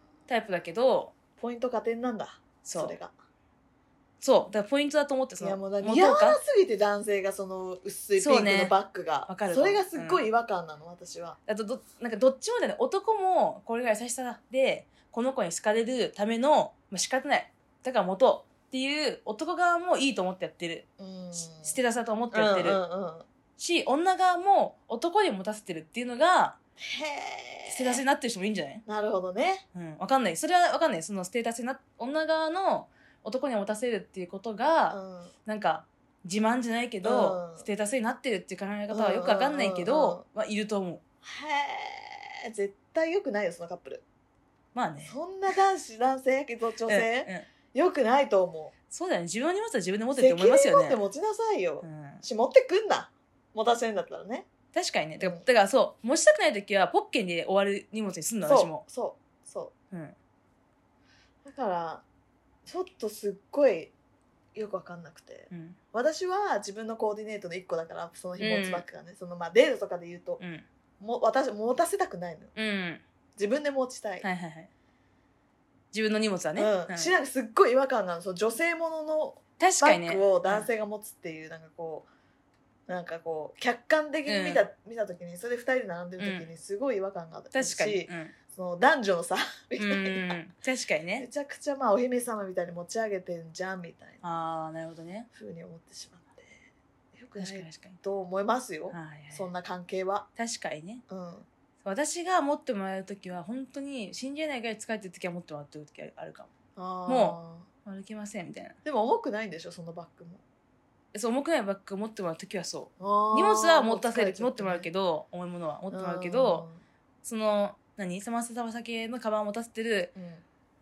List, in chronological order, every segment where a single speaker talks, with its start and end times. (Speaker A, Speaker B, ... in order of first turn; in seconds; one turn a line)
Speaker A: 0.3-1.1
Speaker B: 1.4-3.1
Speaker A: 2.6-3.0
Speaker A: 4.2-6.4
Speaker B: 5.4-11.4
Speaker A: 8.2-8.7
Speaker A: 9.3-10.3
Speaker A: 11.5-20.9
Speaker B: 21.0-21.8
Speaker A: 21.4-22.8
Speaker B: 22.3-23.3
Speaker A: 23.6-26.6
Speaker B: 26.8-28.0
Speaker A: 27.7-28.8
Speaker B: 28.9-29.6
Speaker A: 29.7-41.0
Speaker B: 34.9-35.3
Speaker B: 37.0-37.7
Speaker B: 38.9-40.2
Speaker B: 41.2-44.0
Speaker A: 44.8-45.1
Speaker B: 45.1-48.7
Speaker A: 46.9-47.5
Speaker A: 48.9-51.0
Speaker B: 50.1-54.5
Speaker A: 51.8-52.2
Speaker A: 54.7-58.8
Speaker B: 55.2-55.5
Speaker B: 58.4-59.7
Speaker B: 61.5-62.0
Speaker B: 62.7-63.9
Speaker B: 64.5-70.4
Speaker A: 65.5-65.8
Speaker A: 68.4-68.8
Speaker A: 70.4-70.7
Speaker B: 71.0-72.5
Speaker A: 72.6-73.0
Speaker B: 73.4-74.3
Speaker A: 74.2-74.7
Speaker A: 75.9-77.1
Speaker B: 76.6-82.1
Speaker A: 79.6-80.7
Speaker B: 82.9-90.4
Speaker A: 84.3-84.7
Speaker A: 86.2-86.5
Speaker A: 87.5-88.3
Speaker A: 89.8-91.3
Speaker B: 91.2-94.2
Speaker A: 94.2-95.3
Speaker B: 95.3-96.6
Speaker B: 97.1-100.3
Speaker A: 97.3-98.0
Speaker A: 98.9-99.5
Speaker A: 100.4-101.0
Speaker B: 101.1-101.5
Speaker A: 101.8-106.5
Speaker B: 106.8-107.7
Speaker A: 107.1-108.8
Speaker B: 108.8-110.4
Speaker A: 111.1-116.7
Speaker B: 113.0-114.9
Speaker B: 115.9-116.8
Speaker A: 117.2-120.1
Speaker B: 120.2-120.4